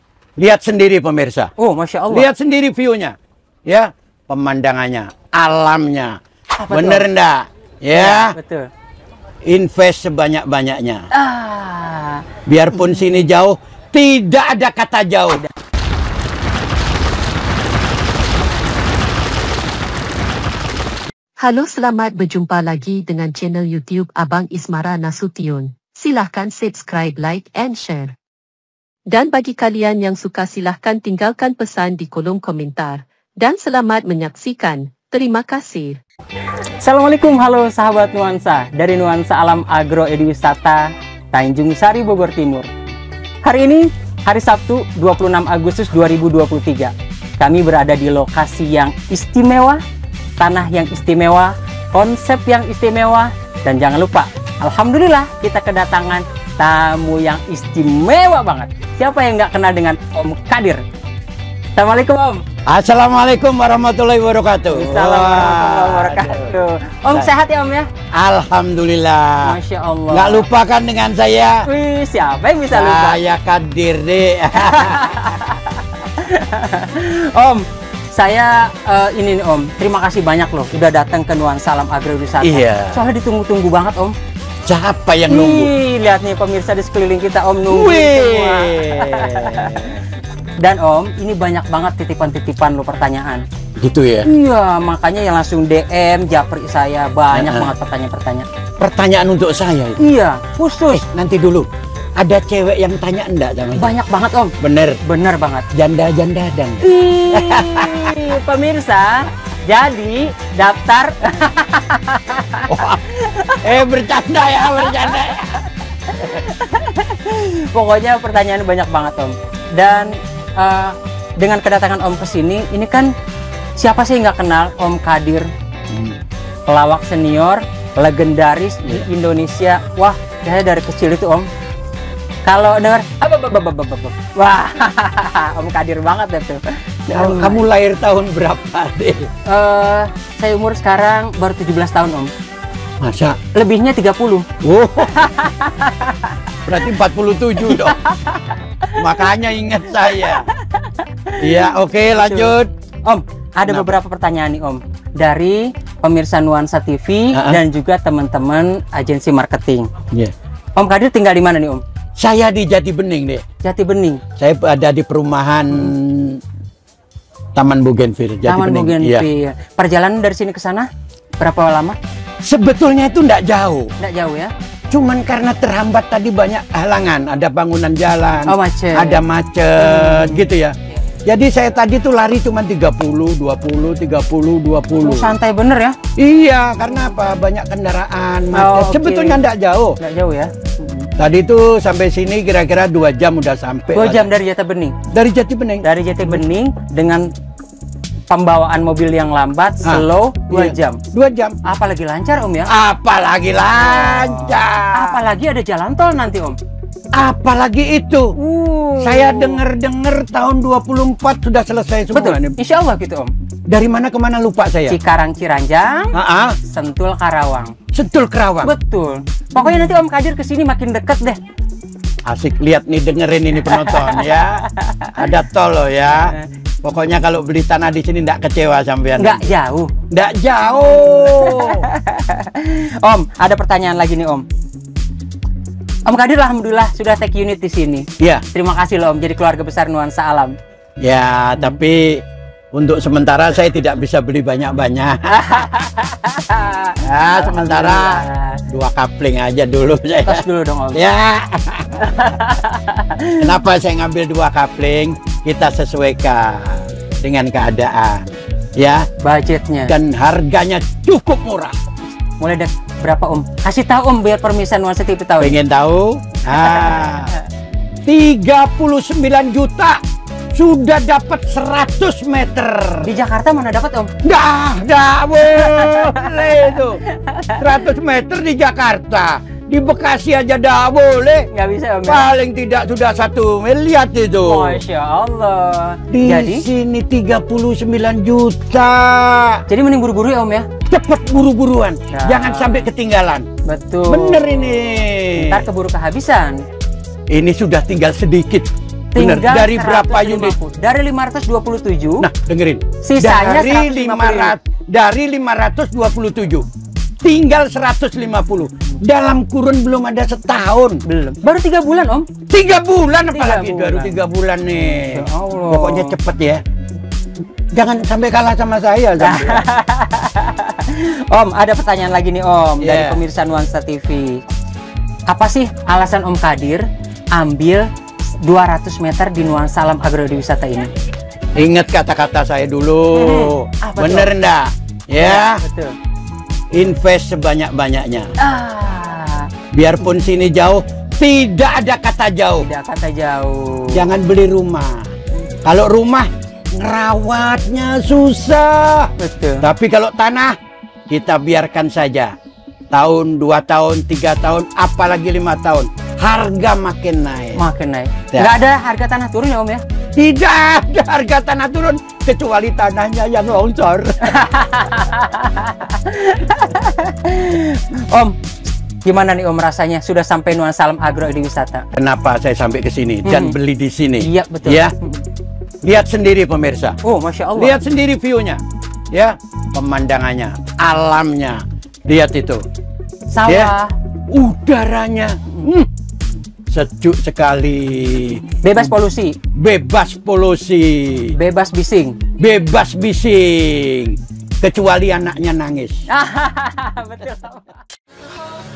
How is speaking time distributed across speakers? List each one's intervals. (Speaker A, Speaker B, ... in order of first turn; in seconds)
Speaker A: 0.4-1.5, 2.1-3.1, 3.7-6.2, 6.7-8.3, 9.5-11.1, 12.5-15.4, 62.7-66.6, 68.1-69.6, 70.1-71.6, 72.7-75.4, 82.4-83.0, 84.7-85.7, 87.7-90.0, 93.8-94.3, 97.3-97.7, 98.8-100.0, 100.9-101.7, 102.2-103.9, 104.6-105.0, 105.7-108.2, 112.7-113.0, 113.6-115.6, 125.9-126.2, 137.1-139.3, 143.0-143.4, 144.6-145.4, 146.7-148.0, 148.9-150.5, 151.4-152.7, 153.7-154.0, 157.3-157.6, 162.2-163.4, 164.4-166.4, 167.6-169.3, 172.4-173.9, 174.9-180.8, 181.2-185.3, 186.2-190.0, 191.2-194.3, 195.1-196.4, 199.8-201.6, 202.7-205.2, 207.2-208.3, 209.0-212.5, 213.7-215.0, 216.1-216.6, 217.9-218.7, 222.2-229.4, 230.1-231.9, 238.2-238.4, 241.0-242.2, 242.7-245.6, 247.0-252.0, 253.3-259.1, 259.9-261.7, 265.4-267.3, 268.1-270.0, 270.6-273.1, 274.2-277.0, 277.5-281.5, 282.0-284.8, 286.1-289.6, 290.9-293.5, 294.1-295.7, 297.3-300.6, 302.2-306.7, 307.2-311.0, 312.5-316.6, 317.7-319.6, 322.8-323.2, 331.6-335.6, 336.7-338.3, 339.7-342.7, 343.9-345.1, 345.6-350.6, 351.1-352.3, 352.9-357.6, 358.3-358.6, 360.2-364.3, 371.9-374.9, 375.8-377.0, 377.6-378.6, 379.1-382.6, 383.4-383.7, 384.3-385.9, 386.7-389.0, 389.5-391.3, 392.4-396.0
Speaker B: 1.6-2.3, 6.6-7.1, 7.9-8.7, 11.1-13.2, 36.8-42.7, 43.4-49.8, 50.4-60.8, 61.8-62.4, 64.7-67.9, 69.4-70.5, 71.6-73.2, 74.5-84.1, 85.3-90.0, 90.6-93.4, 94.2-98.5, 100.0-101.0, 103.8-105.7, 106.8-113.8, 114.6-115.3, 116.1-123.1, 123.8-125.5, 126.7-131.5, 132.4-137.6, 139.5-142.3, 143.5-144.4, 145.1-146.3, 147.6-149.2, 150.2-152.5, 153.0-159.9, 160.8-161.8, 163.6-164.2, 168.4-172.0, 174.0-174.5, 178.5-179.2, 179.8-180.4, 185.0-186.0, 188.5-189.4, 190.0-191.1, 193.9-194.9, 195.8-197.3, 198.3-201.0, 201.6-202.7, 203.7-206.6, 208.4-209.6, 212.1-213.3, 214.9-216.1, 216.6-217.7, 218.6-221.4, 223.6-225.2, 229.2-229.9, 231.1-234.4, 236.1-240.5, 245.3-248.6, 250.2-251.0, 252.0-253.5, 259.2-259.9, 262.4-265.6, 266.6-267.4, 273.0-274.1, 275.4-277.6, 281.5-282.3, 284.4-286.6, 289.7-290.7, 292.1-292.9, 293.6-294.8, 295.4-296.6, 299.1-302.2, 303.0-304.5, 311.1-312.3, 313.3-314.1, 315.0-316.1, 319.2-324.4, 325.3-327.9, 328.4-330.9, 333.1-334.3, 335.2-335.9, 338.4-339.5, 342.6-344.1, 349.2-349.6, 357.6-359.8, 364.2-368.4, 369.0-371.9, 373.2-373.6, 374.2-375.2, 377.0-377.8, 383.3-383.9, 388.6-389.4, 391.4-392.2, 396.1-397.7
Speaker C: 21.4-28.1, 29.1-36.0